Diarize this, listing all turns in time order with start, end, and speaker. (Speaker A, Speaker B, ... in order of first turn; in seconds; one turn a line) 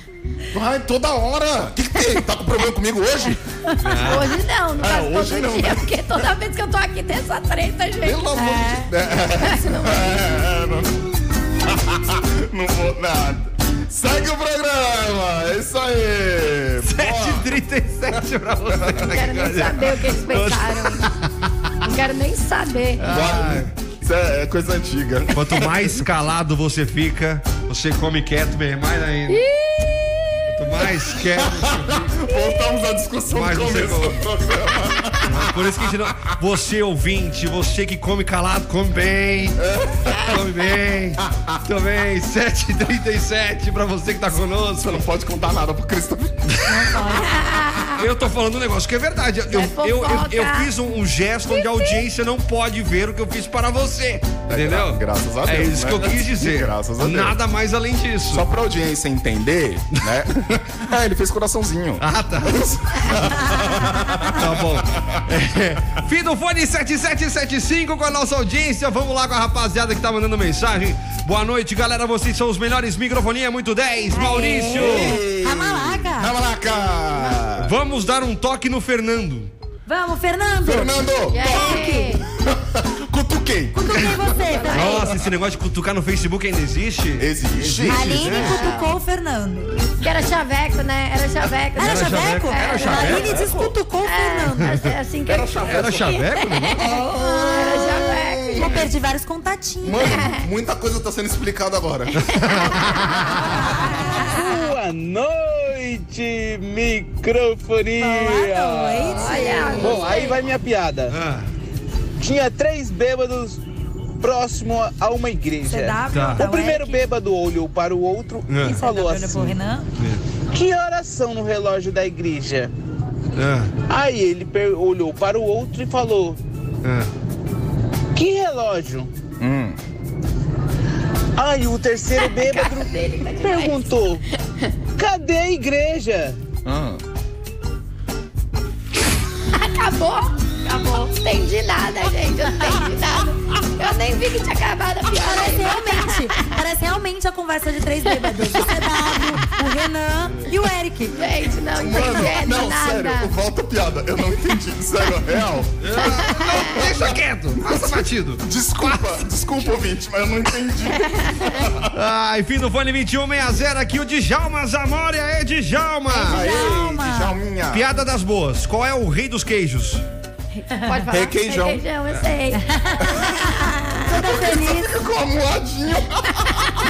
Speaker A: 0.5-3.4
Speaker B: 3.8-4.4
Speaker C: 3.9-8.3
Speaker A: 4.8-6.2
Speaker A: 8.0-11.1
Speaker D: 8.3-8.9
Speaker C: 9.4-10.2
Speaker A: 11.6-17.4
Speaker B: 16.8-21.3
Speaker A: 18.7-19.2
Speaker C: 19.0-21.0
Speaker C: 21.8-23.1
Speaker B: 23.0-23.7
Speaker A: 23.1-26.0
Speaker B: 25.3-29.4
Speaker C: 29.3-30.4
Speaker B: 30.5-32.2
Speaker A: 31.1-35.7
Speaker B: 33.3-34.2
Speaker B: 35.3-39.6
Speaker A: 39.6-40.4
Speaker B: 40.1-45.0
Speaker A: 41.2-41.6
Speaker A: 44.8-46.8
Speaker B: 46.5-46.9
Speaker D: 46.7-47.3
Speaker C: 47.2-48.0
Speaker B: 48.0-58.5
Speaker C: 49.5-50.7
Speaker C: 51.6-52.0
Speaker A: 54.5-57.4
Speaker A: 58.3-65.2
Speaker B: 62.0-62.6
Speaker B: 64.2-75.2
Speaker D: 74.1-76.3
Speaker A: 74.7-77.7
Speaker C: 77.1-77.5
Speaker B: 77.6-79.5
Speaker D: 79.9-82.1
Speaker A: 80.6-85.1
Speaker C: 81.3-82.2
Speaker D: 83.7-85.1
Speaker C: 84.4-85.0
Speaker B: 84.7-88.7
Speaker A: 87.2-88.6
Speaker D: 87.9-89.7
Speaker C: 88.3-88.9
Speaker C: 90.0-93.3
Speaker D: 91.8-94.8
Speaker B: 91.8-93.4
Speaker A: 93.1-93.7
Speaker C: 94.0-98.8
Speaker B: 94.6-96.9
Speaker A: 95.3-96.0
Speaker A: 96.8-98.9
Speaker D: 97.6-97.9
Speaker D: 98.5-100.1
Speaker A: 99.8-103.2
Speaker C: 100.1-100.4
Speaker B: 102.1-103.5
Speaker D: 103.6-104.5
Speaker E: 104.2-111.1
Speaker D: 108.0-110.2
Speaker C: 109.1-110.4
Speaker B: 111.1-111.5
Speaker E: 112.2-113.6
Speaker E: 114.2-119.5
Speaker D: 115.7-117.0
Speaker B: 116.1-116.4
Speaker B: 118.5-118.8
Speaker D: 118.6-119.9
Speaker E: 120.5-122.7
Speaker B: 123.3-123.7
Speaker E: 123.9-126.4
Speaker B: 126.8-127.1
Speaker E: 128.1-129.1
Speaker A: 129.4-129.8
Speaker E: 131.4-134.2
Speaker C: 132.3-133.8
Speaker E: 135.0-136.4
Speaker A: 136.6-137.0
Speaker C: 139.5-146.2
Speaker D: 145.2-151.2
Speaker C: 148.3-148.5
Speaker C: 151.2-153.3
Speaker A: 151.8-161.9
Speaker B: 155.8-159.0
Speaker C: 161.1-161.4
Speaker B: 161.9-166.4
Speaker D: 166.1-167.3
Speaker A: 166.2-167.9
Speaker B: 167.7-170.0
Speaker C: 170.8-172.6
Speaker A: 171.1-171.8
Speaker D: 172.7-173.0
Speaker A: 174.1-176.8
Speaker D: 174.1-174.9